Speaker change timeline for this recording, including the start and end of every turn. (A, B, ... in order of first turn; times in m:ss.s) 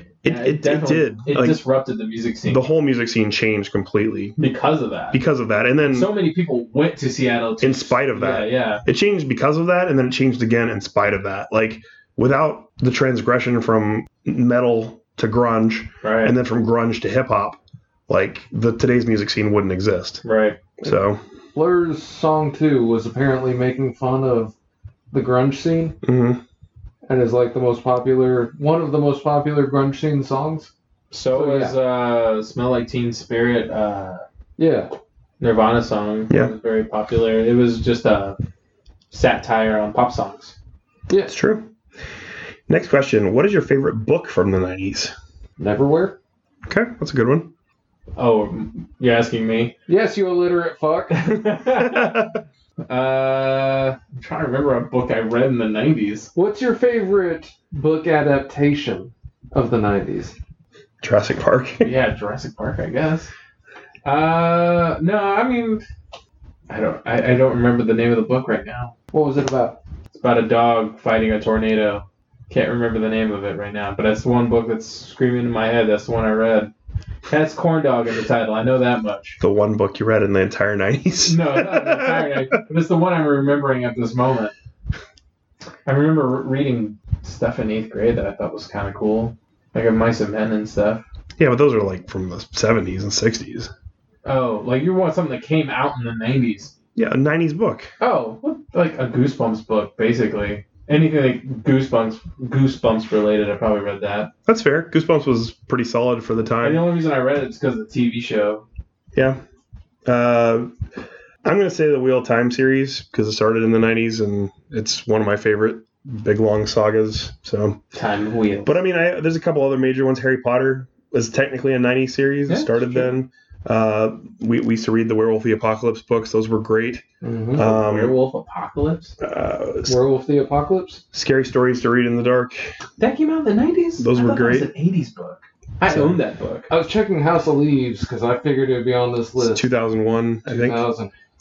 0:00.2-0:01.6 A
0:00.2-0:02.6 B
0:02.5-0:04.4 A
0:04.4-0:05.2 B
0:05.1-0:06.1 A
0:05.9-0:08.8 B
0:07.6-0:20.2 A
0:16.0-0:16.4 B
0:20.2-0:20.6 B
0:20.8-0:21.2 A
0:21.6-0:24.5 C
0:25.1-0:26.0 C
0:26.0-0:26.4 A
0:27.1-0:30.7 C
0:31.1-0:34.2 B
0:31.3-0:31.8 C
0:34.6-0:34.9 C
0:35.4-0:38.4 B
0:39.1-0:40.6 B
0:41.3-0:41.7 A
0:42.7-0:45.2 A
0:45.6-0:46.2 C
0:46.7-0:47.5 A
0:48.2-0:49.8 B
0:49.9-0:51.2 C
0:51.1-0:52.2 B
0:51.8-0:52.4 A
0:52.8-0:56.3 B
0:56.4-1:00.4 C
1:01.0-1:01.9 A
1:01.8-1:03.3 B
1:04.0-1:05.8 B
1:06.7-1:08.9 B
1:09.1-1:09.8 C
1:10.1-1:16.7 B
1:17.3-1:19.4 B
1:19.4-1:22.4 A
1:21.3-1:24.5 B
1:25.9-1:31.0 B
1:31.4-1:33.7 A
1:34.2-1:36.7 B
1:37.0-1:37.9 A
1:38.0-1:44.3 B
1:44.5-1:46.8 A
1:46.6-1:48.6 B
1:49.2-1:49.4 A
1:50.1-1:50.7 A
1:51.4-1:57.8 A
1:58.0-1:58.7 B
1:58.6-2:07.0 A
2:02.5-2:03.1 B
2:07.2-2:07.7 C
2:07.6-2:08.2 A
2:07.6-2:09.2 B
2:09.2-2:10.0 A
2:09.9-2:11.0 C
2:11.1-2:12.7 A
2:13.0-2:16.7 B
2:14.0-2:14.7 A
2:16.7-2:19.7 C
2:19.4-2:20.8 A
2:20.5-2:21.1 C